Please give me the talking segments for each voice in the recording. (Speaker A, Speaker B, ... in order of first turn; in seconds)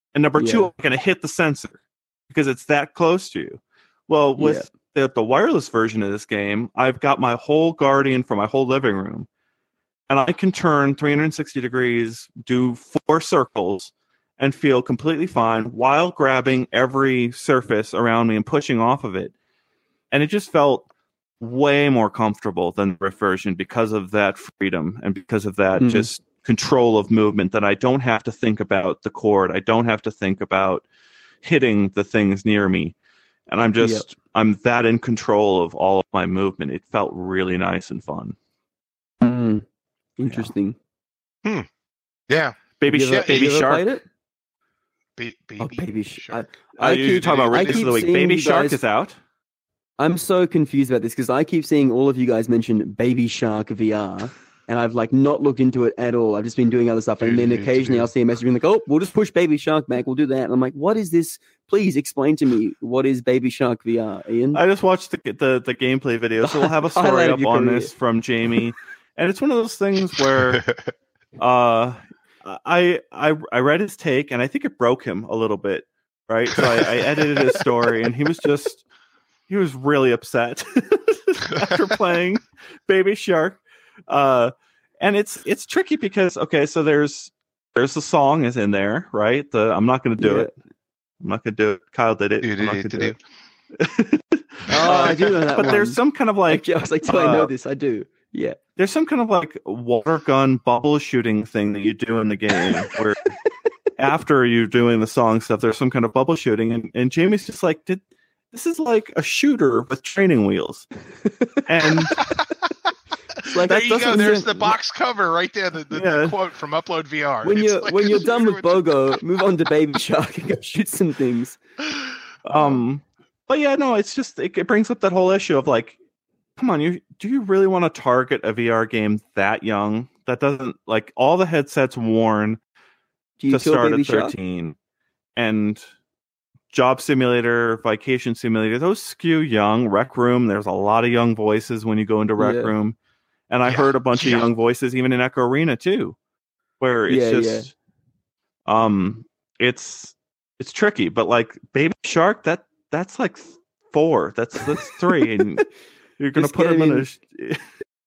Speaker A: 0.1-9.3, 10.1-19.3, 20.1-20.9, 21.4-30.8, 31.4-33.0, 33.5-38.4, 40.3-40.5, 42.8-43.8, 46.8-49.2, 64.5-70.6, 71.4-78.8, 79.5-90.5, 91.2-93.2, 93.7-97.5, 98.8-103.2, 104.0-110.9, 111.6-112.2, 113.7-114.2, 115.9-116.4, 122.5-126.0, 126.6-132.6, 133.5-134.8, 135.4-135.8, 136.7-143.0, 143.5-146.2, 146.8-147.7, 148.7-155.7, 156.2-157.6
Speaker B: 0.4-0.7, 4.4-4.7, 25.8-26.1, 33.8-34.1, 39.2-39.6, 40.2-40.8, 42.9-44.0, 45.6-48.8, 50.0-64.6, 66.4-67.9, 90.2-90.5, 94.7-98.6, 111.2-112.4, 113.5-114.8, 117.4-121.6, 133.4-134.3, 142.4-142.7, 147.1-147.7, 156.4-157.1
Speaker C: 42.3-43.5, 45.2-47.9, 57.2-58.1, 92.4-93.2, 94.8-95.1, 113.4-119.5, 143.7-144.5